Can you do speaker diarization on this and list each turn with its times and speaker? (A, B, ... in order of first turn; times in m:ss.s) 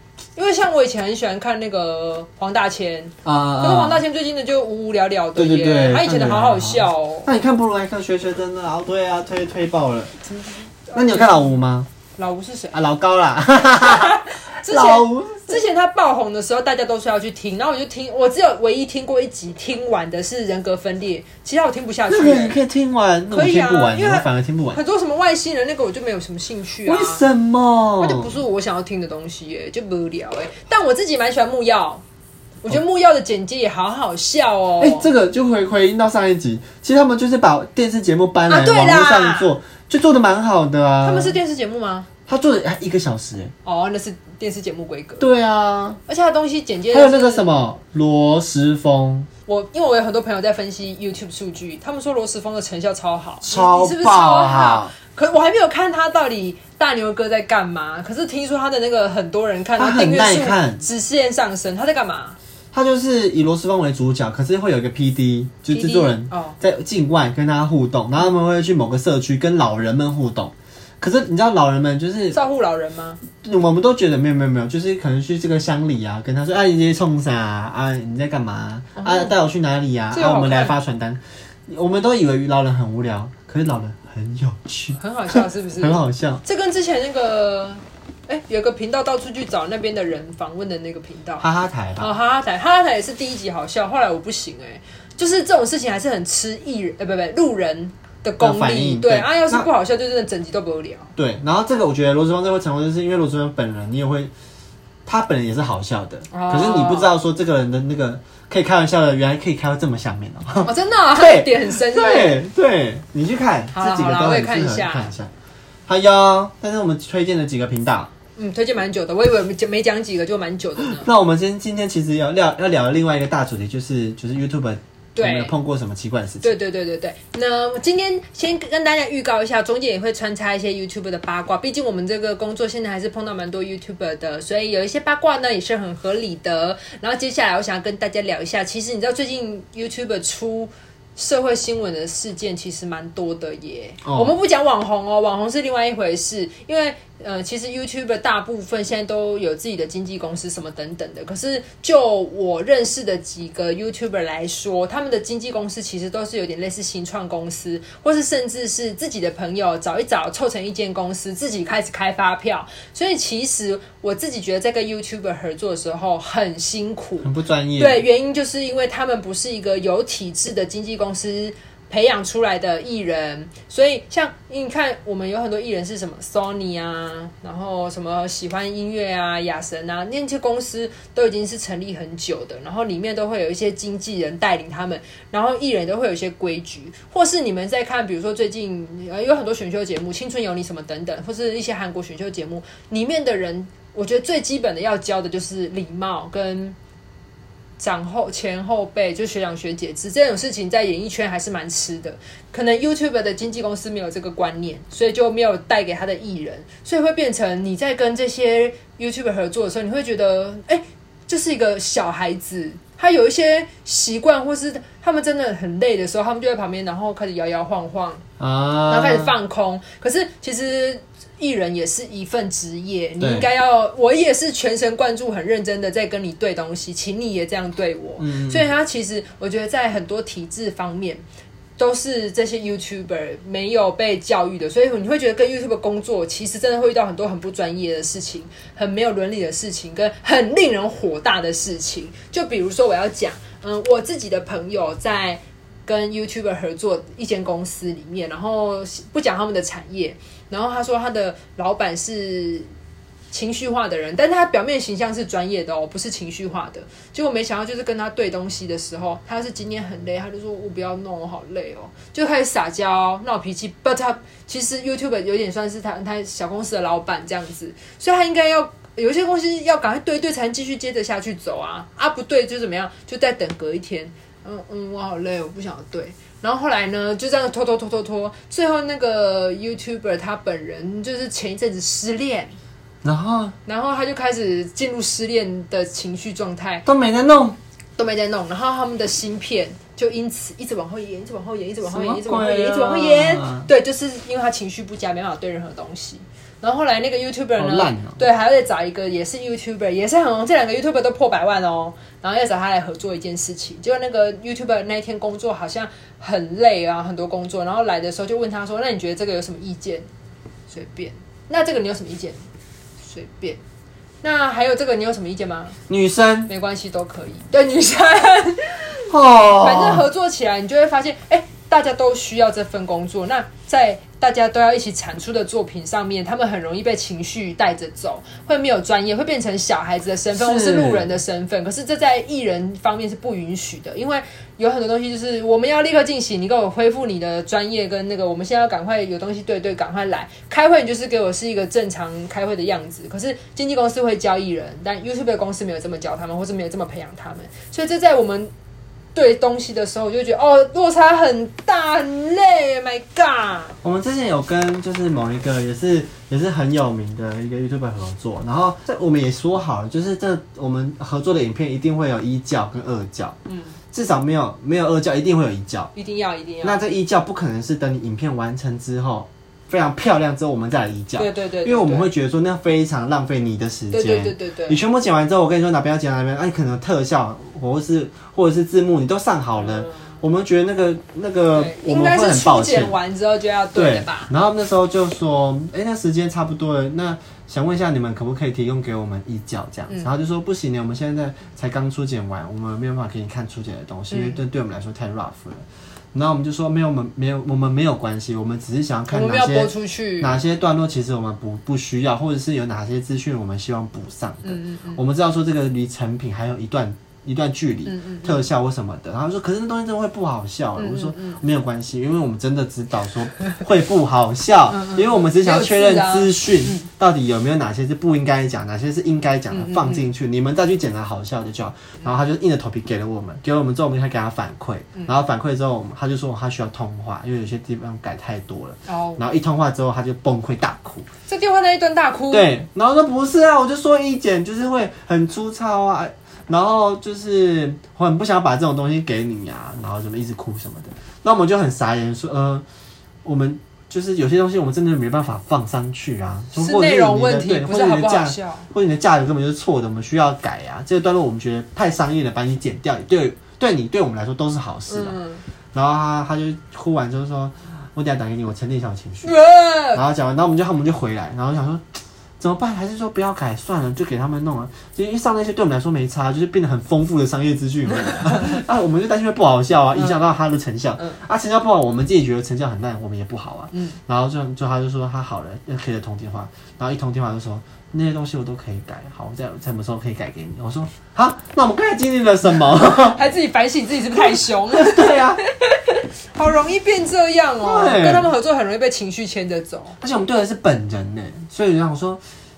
0:00.4-0:07.3 A
0:03.2-0:04.0 B
0:05.4-0:10.1 B
0:10.3-0:11.5 A
0:10.9-0:11.9 B
0:12.2-0:12.8 A
0:12.7-0:15.7 B
0:13.8-0:22.6 A
0:22.1-0:24.8 B
0:23.3-0:27.2 A
0:26.8-0:28.4 B
0:28.0-0:32.0 A
0:32.6-0:35.1 A
0:34.8-0:41.4 B
0:38.5-0:39.6 A
0:41.0-0:42.1 A
0:42.3-0:43.5 B
0:43.6-0:45.3 A
0:45.2-0:46.0 B
0:46.1-0:47.5 A
0:46.9-0:49.3 B
0:49.5-1:02.4 A
0:53.4-0:54.9 B
0:59.8-1:00.8 B
1:02.7-1:12.4 B
1:05.7-1:06.6 A
1:12.3-1:13.2 A
1:13.4-1:26.4 B
1:19.0-1:19.4 A
1:20.1-1:20.8 A
1:25.0-1:41.1 A
1:31.4-1:32.1 B
1:38.4-1:39.7 B
1:41.2-1:44.3 B
1:45.1-1:55.3 B
1:46.3-1:47.2 A
1:50.6-1:52.4 A
1:53.7-1:55.1 A
1:55.9-1:58.1 B
1:58.4-2:01.1 A
2:00.8-2:06.5 B
2:05.2-2:05.5 A
2:06.4-3:16.8 A
2:24.0-2:24.4 B
2:47.2-2:48.0 B
3:17.8-3:38.2 A
3:38.4-3:39.4 B
3:38.9-3:51.2 A
3:43.2-3:43.5 B
3:48.2-3:48.7 B
3:51.8-4:12.7 A
4:13.3-4:42.5 A
4:43.0-4:43.6 B
4:43.7-4:46.8 A
4:46.9-4:47.6 B
4:48.0-5:10.1 A
4:51.8-4:53.7 B
4:57.6-4:58.2 B
5:10.7-5:12.4 A
5:13.0-5:13.6 A
5:14.2-5:15.8 A
5:15.9-5:16.5 B
5:16.5-5:48.5 A
5:19.1-5:20.1 B
5:30.3-5:31.1 B
5:49.2-5:53.8 A
5:53.8-6:03.4 B
6:03.5-6:03.8 A
6:03.9-6:05.9 B
6:06.0-6:06.8 A
6:06.6-6:22.9 B
6:11.2-6:12.1 A
6:13.9-6:14.8 A
6:19.6-6:20.2 A
6:21.6-6:24.3 A
6:23.8-7:11.1 B
6:34.1-6:34.4 A
6:39.1-6:40.4 A
6:44.4-6:45.0 A
6:47.9-6:48.5 A
6:50.8-6:51.4 A
6:54.7-6:56.9 A
6:59.5-7:00.1 A
7:08.9-7:09.2 A
7:11.3-7:12.5 A
7:12.3-7:22.6 B
7:23.2-7:35.2 B
7:26.6-7:28.7 A
7:34.9-7:35.4 A
7:35.7-7:39.4 B
7:39.2-7:40.0 A
7:39.9-8:03.2 B
7:48.0-7:48.6 A
7:53.7-7:54.0 A
8:03.1-8:10.0 A
8:04.2-8:05.4 B
8:07.6-8:08.3 B
8:10.0-8:12.2 B